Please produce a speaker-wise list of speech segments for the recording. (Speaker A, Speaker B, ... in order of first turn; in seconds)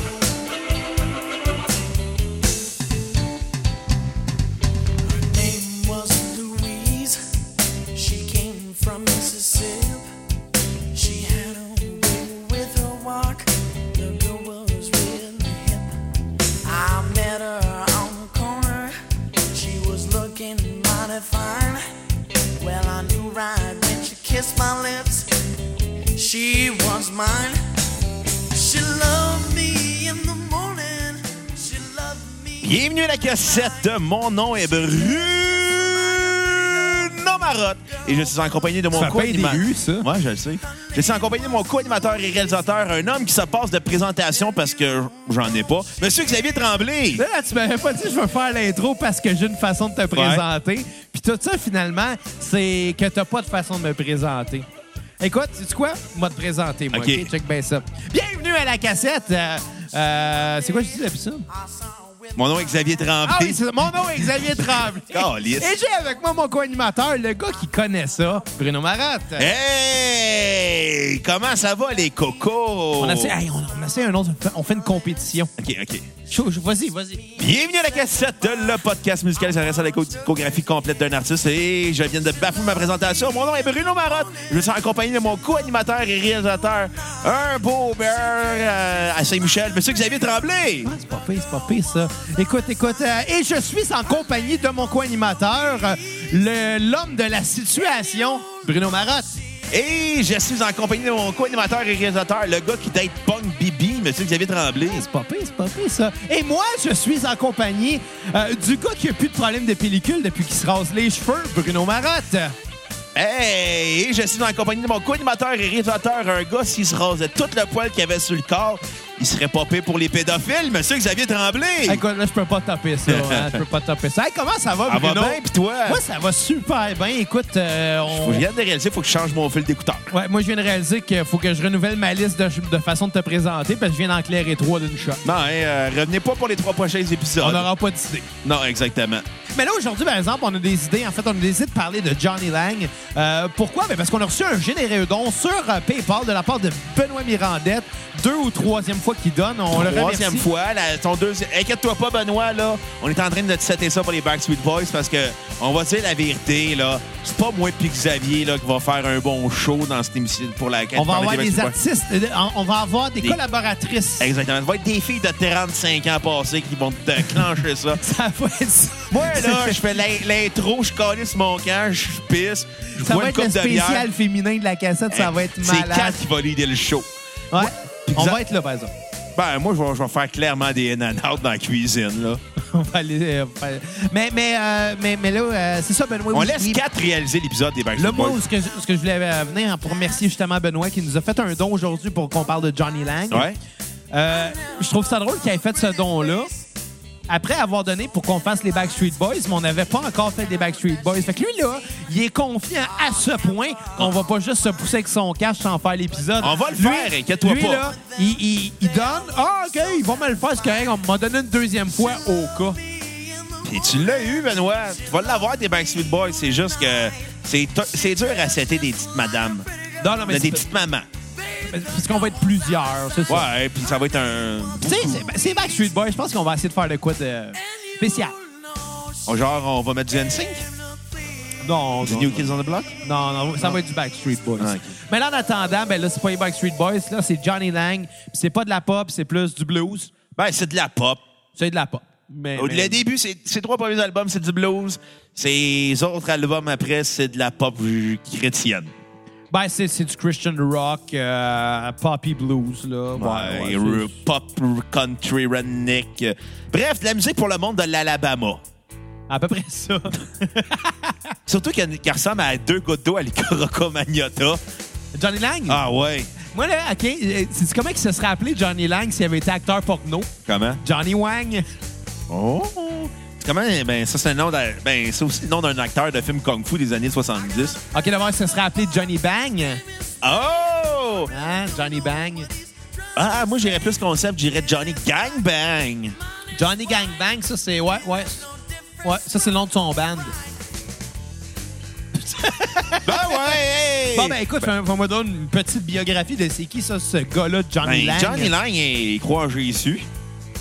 Speaker A: 5.0-7.2, 7.9-10.1, 10.9-15.9, 16.6-18.9, 19.5-21.8, 22.6-25.3, 26.1-27.6, 28.4-32.7, 61.8-62.3
Speaker B: 32.6-47.2, 50.1-50.4, 56.9-57.3, 62.3-65.7, 69.4-73.3, 75.6-76.1, 77.4-90.9, 99.7-105.0, 113.1-122.0, 123.1-123.6, 124.9-126.0, 128.1-130.1, 135.2-137.7, 138.4-139.2, 149.7-161.7, 164.2-168.0, 169.1-174.1, 175.1-178.4, 179.3-182.4, 186.3-188.4, 193.3-193.6, 206.4-207.8, 213.6-219.7, 220.2-221.1, 223.3-225.3, 229.2-230.7, 232.0-232.9, 234.6-234.9, 240.3-241.2, 242.6-248.9, 253.2-258.6, 261.5-264.6, 265.7-266.3, 270.4-270.8, 272.3-277.8, 280.2-281.3, 283.1-286.1, 293.0-294.7, 297.8-300.1
Speaker C: 38.9-40.1, 47.1-54.6, 55.2-61.5, 63.2-69.5, 73.0-75.5, 76.3-77.2, 90.8-99.4, 104.8-112.5, 121.8-128.4, 130.1-135.2, 137.4-138.3, 139.5-150.5, 160.9-164.3, 167.9-169.8, 173.0-176.2, 177.5-178.9, 182.6-186.8, 187.9-193.5, 194.1-196.5, 197.3-212.8, 220.0-220.6, 221.6-223.5, 224.8-228.3, 231.6-232.5, 233.0-240.1, 241.5-243.0, 249.5-254.1, 259.3-261.3, 265.1-265.8, 266.5-271.6, 277.9-279.8, 281.3-282.5, 286.6-288.4, 289.0-290.3, 292.1-293.6, 294.1-298.5